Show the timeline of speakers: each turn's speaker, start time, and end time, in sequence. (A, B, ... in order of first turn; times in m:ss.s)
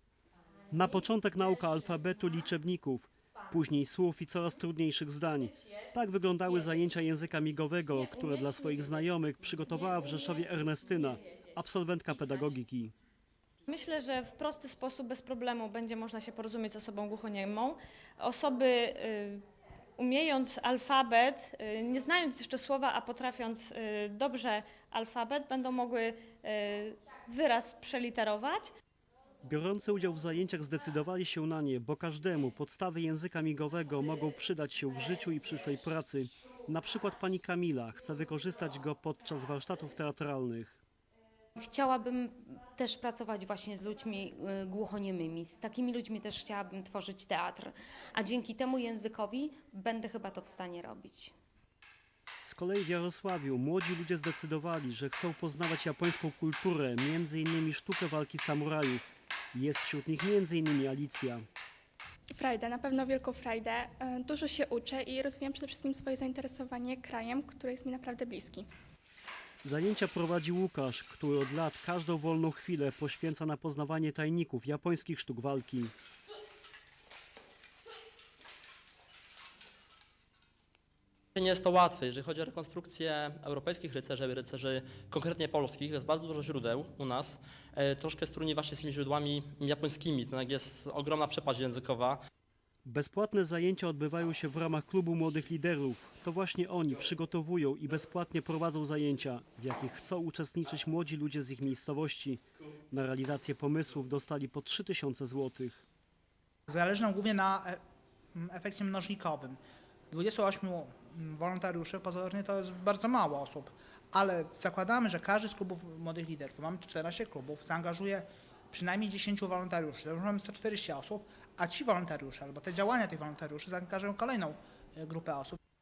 0:00.7-0:12.9 A
0:13.7-0:19.4 B
0:20.0-0:28.7 B
0:29.4-0:40.8 A
0:41.6-0:51.3 C
0:52.4-1:01.4 A
1:02.3-1:08.7 D
1:09.6-1:15.9 A
1:21.4-1:32.2 E
1:32.8-1:45.8 A
1:46.7-1:47.8 F
1:48.3-1:49.6 F
1:50.1-2:05.6 F